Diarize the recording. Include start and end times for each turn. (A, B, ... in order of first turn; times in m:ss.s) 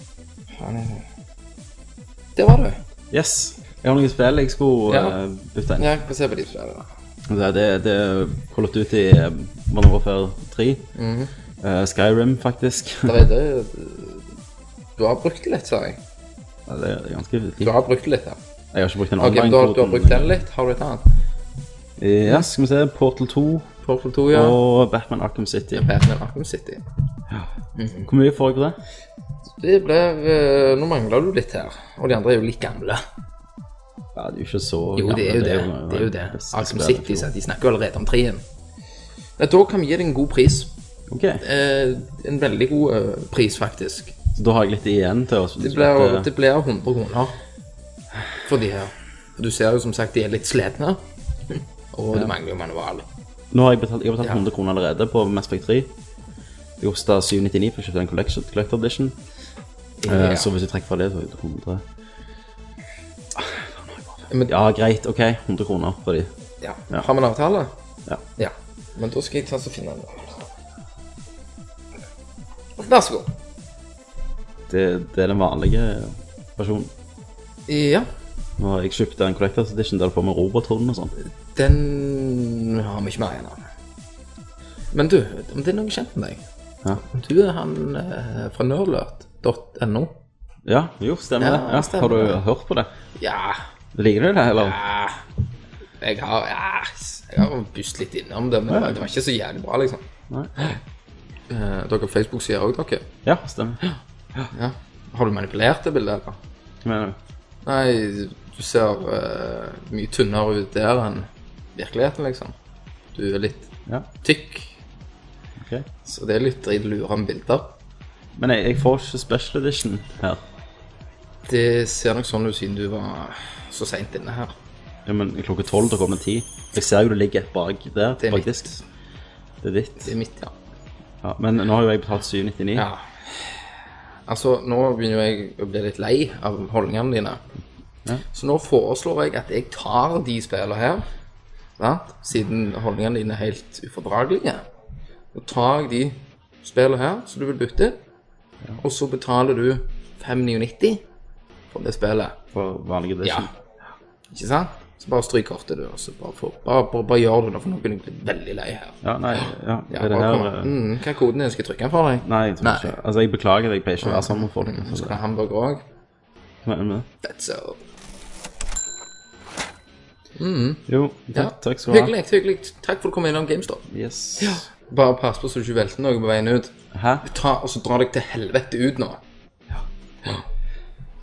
0:00.5-0:01.1 A
0:02.4-0:02.8 A
0:03.1-0:05.9 B
0:04.9-0:05.2 A
0:05.8-0:06.9 A
0:07.3-0:10.9 B
0:11.0-0:11.3 A
0:11.6-0:13.2 B
0:13.0-0:14.3 A
0:15.0-0:16.0 A
0:16.7-0:17.7 B
0:17.6-0:18.4 A
0:18.7-0:20.4 B
0:19.2-0:21.1 A
0:22.0-0:23.7 B
0:23.8-0:24.6 A
0:24.3-0:25.9 B
0:25.8-0:26.8 A
0:27.8-0:28.1 A
0:28.0-0:28.8 B
0:29.6-0:33.0 A
0:34.2-0:37.3 B
0:35.0-0:38.4 A
0:39.4-0:40.7 A
0:41.1-0:41.4 B
0:41.4-0:44.2 A
0:44.4-0:46.3 B
0:45.6-0:47.4 A
0:48.4-0:53.1 A
0:53.5-0:55.9 B
0:56.8-0:59.2 B
1:00.0-1:00.5 A
1:00.1-1:01.8 B
1:03.4-1:06.3 B
1:06.6-1:07.7 A
1:08.4-1:10.3 A
1:12.8-1:13.3 A
1:14.7-1:16.9 B
1:17.7-1:18.1 A
1:18.6-1:21.1 B
1:21.4-1:23.6 A
1:24.9-1:26.4 A
1:26.9-1:30.2 A
1:30.7-1:32.9 B
1:31.4-1:32.4 A
1:33.2-1:33.6 A
1:34.0-1:34.8 B
1:34.6-1:35.2 A
1:36.0-1:40.1 A
1:38.7-1:39.0 B
1:41.5-1:43.1 A
1:43.2-1:43.8 B
1:44.5-1:46.4 A
1:46.8-1:47.2 B
1:47.6-1:52.6 A
1:53.2-1:54.8 A
1:55.6-1:55.9 B
1:56.1-1:57.8 A
1:58.4-2:00.4 B
2:01.5-2:04.5 A
2:05.1-2:08.8 B
2:08.2-2:08.8 A
2:09.6-2:10.1 B
2:10.0-2:10.5 A
2:11.2-2:12.9 B
2:12.8-2:13.7 A
2:14.3-2:17.4 A
2:18.3-2:21.1 A
2:21.8-2:24.6 A
2:25.3-2:28.0 A
2:28.8-2:31.0 A
2:31.7-2:32.4 A
2:32.5-2:33.5 B
2:33.2-2:33.5 A
2:34.3-2:43.0 A
2:39.0-2:40.8 B
2:42.2-2:45.2 B
2:44.0-2:45.8 A
2:46.6-2:47.1 B
2:47.2-2:47.8 A
2:50.4-2:53.9 A
2:50.9-2:52.1 B
2:53.9-2:54.7 B
2:54.4-2:59.2 A
2:56.9-2:57.2 B